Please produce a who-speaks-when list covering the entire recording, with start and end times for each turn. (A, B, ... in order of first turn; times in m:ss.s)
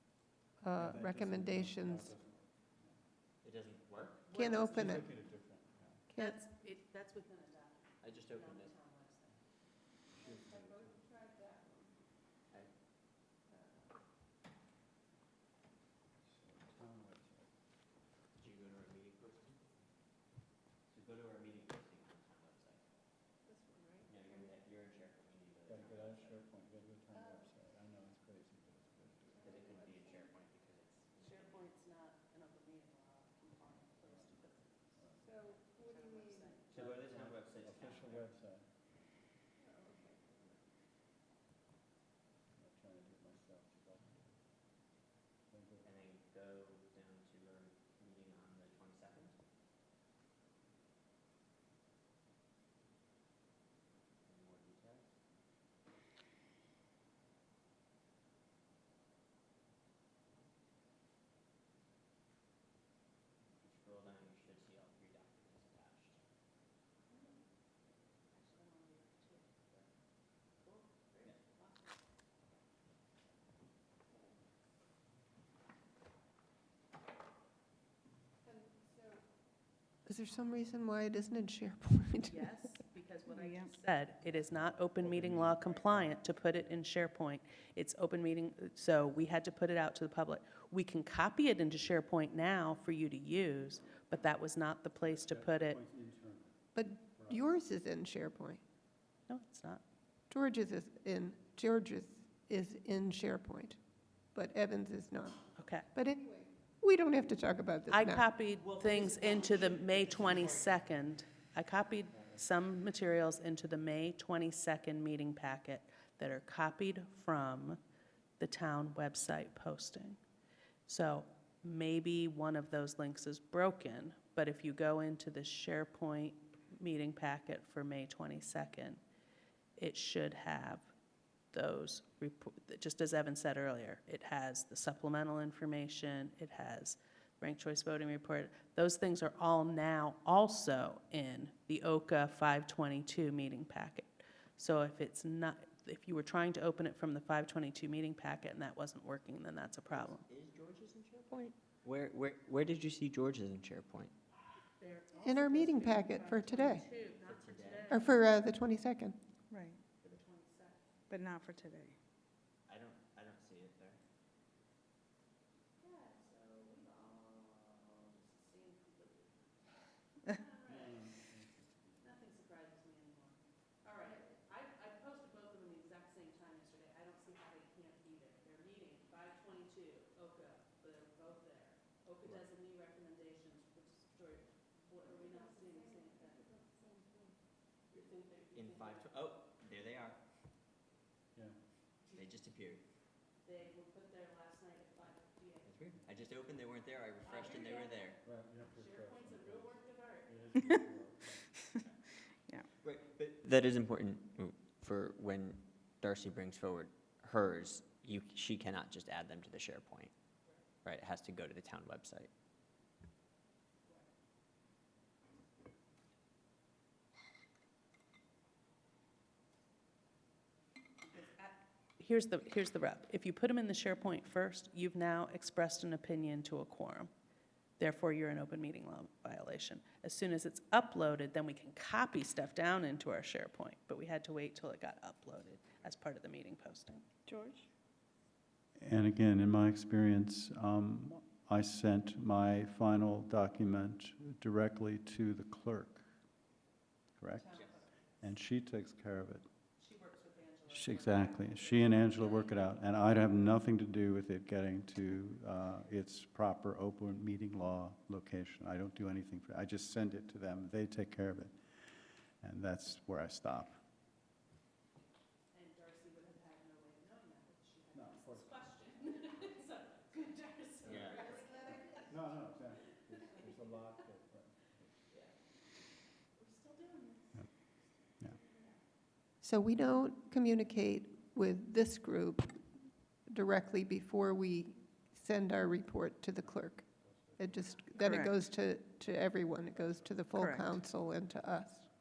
0:00.6-0:02.1 A
0:00.8-0:03.0 B
0:03.4-0:04.3 C
0:04.3-0:05.1 D
0:04.3-0:05.0 A
0:04.7-0:06.1 B
0:06.1-0:06.4 A
0:06.2-0:09.4 D
0:08.0-0:08.7 C
0:10.1-0:10.9 B
0:10.2-0:12.0 A
0:13.5-0:14.0 A
0:16.2-0:17.5 B
0:18.4-0:19.7 C
0:20.9-0:22.8 C
0:23.4-0:24.5 A
0:24.1-0:26.4 C
0:25.6-0:29.5 B
0:27.1-0:27.4 A
0:29.4-0:31.7 C
0:29.4-0:30.3 A
0:31.2-0:36.7 D
0:34.0-0:34.4 B
0:34.9-0:35.2 B
0:35.2-0:36.6 A
0:36.7-0:38.3 C
0:36.7-0:38.7 B
0:39.6-0:40.6 A
0:42.6-0:44.3 B
0:45.5-0:45.9 B
0:45.8-0:49.4 C
0:54.2-0:55.1 C
1:03.6-1:06.2 C
1:07.1-1:07.4 D
1:08.3-1:09.6 D
1:10.6-1:11.9 D
1:18.4-1:19.2 A
1:20.0-1:22.4 A
1:22.3-1:35.8 D
1:23.3-1:23.7 E
1:24.2-1:26.8 B
1:35.0-1:37.6 B
1:36.7-1:38.6 A
1:39.3-1:39.8 D
1:40.3-1:43.8 A
1:44.3-1:48.3 A
1:45.6-1:45.9 D
1:47.9-1:57.8 D
1:48.6-1:50.8 C
1:58.4-2:00.2 D
2:00.8-2:09.0 D
2:09.8-2:10.9 D
2:11.5-2:30.2 D
2:29.9-2:34.1 C
2:34.8-2:38.3 D
2:35.2-2:36.8 A
2:37.2-2:38.1 C
2:37.9-2:39.2 A
2:39.5-2:39.8 E
2:40.1-2:40.9 D
2:41.1-2:42.0 E
2:42.7-2:44.0 C
2:45.8-2:49.4 D
2:50.2-2:51.0 D
2:50.6-2:52.1 B
2:52.0-3:06.4 D
3:05.2-3:07.3 A
3:07.9-3:09.0 D
3:08.5-3:10.2 C
3:12.1-3:12.8 C
3:13.4-3:15.7 D
3:15.6-3:18.2 C
3:17.2-3:18.2 D
3:18.2-3:21.5 B
3:18.7-3:20.4 D
3:22.8-3:30.1 C
3:30.8-3:32.3 C
3:41.0-3:47.1 D
3:47.8-3:57.0 D
3:57.3-3:57.7 E
3:58.8-4:06.0 B
4:07.2-4:07.6 B
4:07.3-4:08.2 D
4:08.2-4:09.4 B
4:09.8-4:12.8 D
4:10.7-4:21.6 B
4:22.4-4:23.8 B
4:25.5-4:31.9 D
4:27.9-4:28.7 B
4:30.8-4:31.5 C
4:31.9-4:35.0 B
4:33.3-4:33.6 D
4:36.4-4:37.4 D
4:39.4-4:42.7 A
4:43.2-4:51.9 A
4:46.9-4:48.0 B
4:48.0-4:48.2 D
4:49.8-4:50.3 B
4:50.3-4:50.7 E